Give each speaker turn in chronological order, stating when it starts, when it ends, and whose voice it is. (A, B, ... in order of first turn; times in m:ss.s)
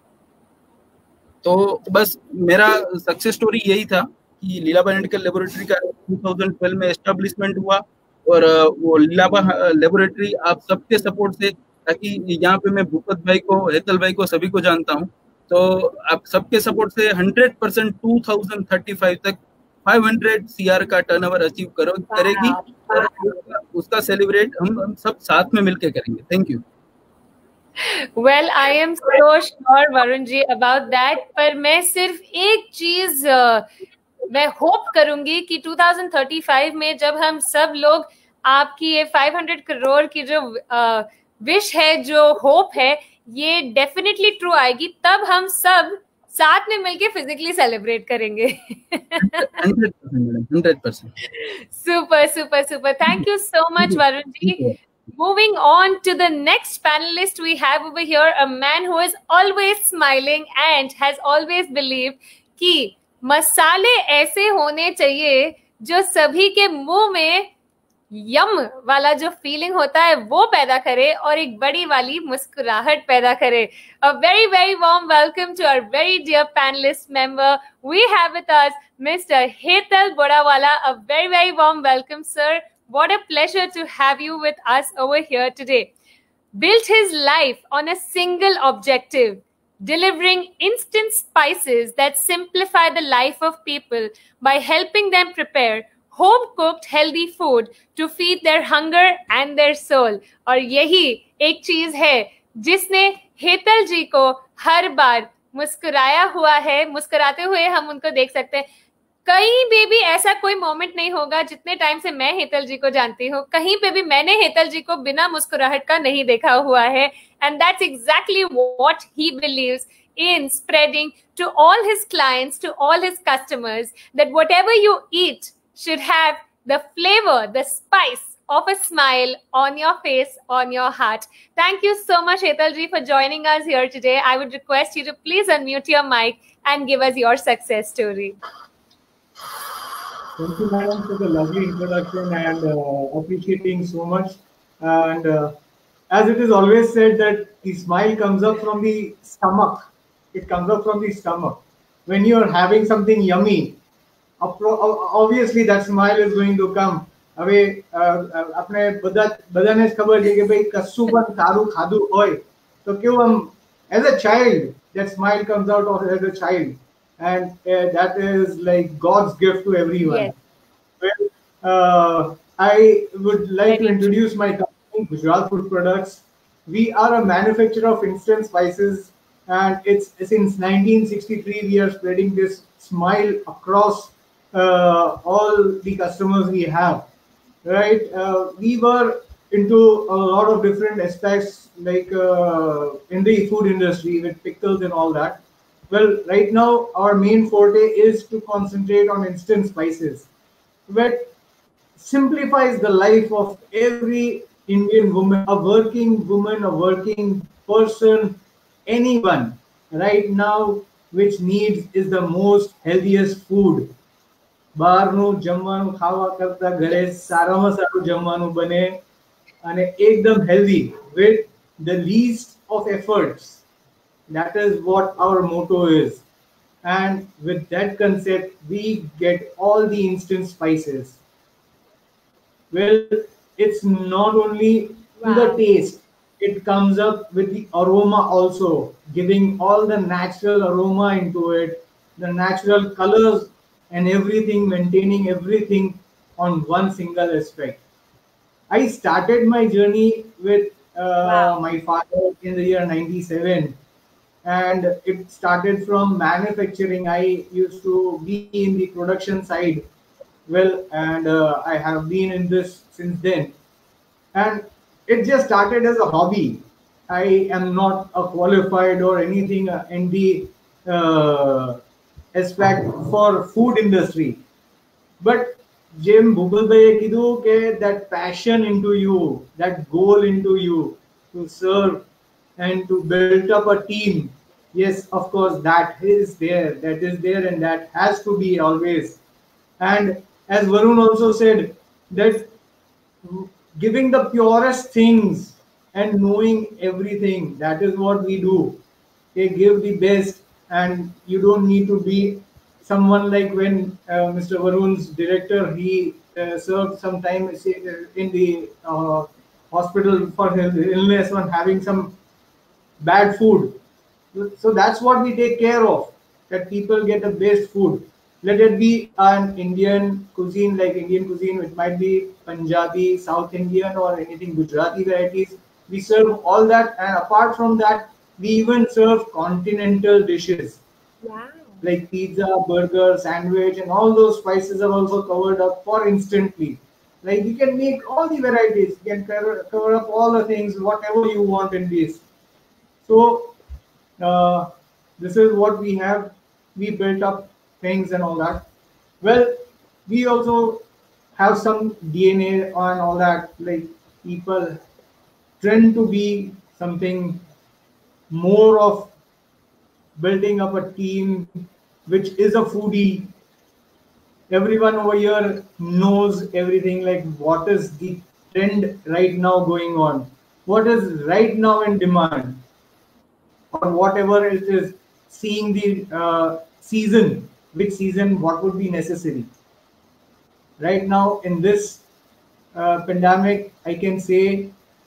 0:01.4-0:26.6 A
0:22.1-0:23.1 B
0:27.8-0:33.7 B
0:34.3-0:49.5 B
0:49.2-0:51.1 A
0:51.4-0:54.6 B
0:53.8-0:54.8 A
0:55.1-1:07.5 B
1:08.1-1:25.9 B
1:26.6-1:48.7 B
1:49.2-2:18.4 B
2:20.4-2:25.5 C
2:26.1-2:33.8 C
2:34.4-2:50.3 C
2:50.0-2:50.3 B
2:51.0-3:07.1 C
2:53.7-2:54.2 B
3:07.6-3:20.3 C
3:20.9-3:21.3 C
3:22.0-3:34.0 C
3:34.8-3:39.0 C
3:39.6-3:43.6 C
3:44.3-3:46.2 C
3:46.8-3:51.2 C
3:52.7-4:07.8 C
3:55.2-3:55.6 B
4:08.7-4:13.8 C
4:11.2-4:11.6 B
4:14.4-4:19.9 C
4:20.5-4:23.6 C
4:24.3-4:31.8 C
4:32.3-4:34.4 C
4:35.2-4:42.1 C
4:42.6-4:49.2 C
4:49.8-4:52.5 C
4:53.2-4:58.8 C
4:59.4-5:12.2 C
5:13.0-5:13.8 C
5:14.3-5:30.8 C
5:31.2-5:31.8 B
5:31.8-5:42.2 C
5:43.1-5:43.6 C
5:44.2-5:48.7 C
5:49.2-5:50.8 C
5:51.4-5:54.8 C
5:55.6-5:57.4 C
5:58.3-5:59.1 C
6:00.2-6:03.3 C
6:04.5-6:12.6 C
6:13.7-6:19.5 C
6:20.8-6:22.0 C
6:22.7-6:24.8 C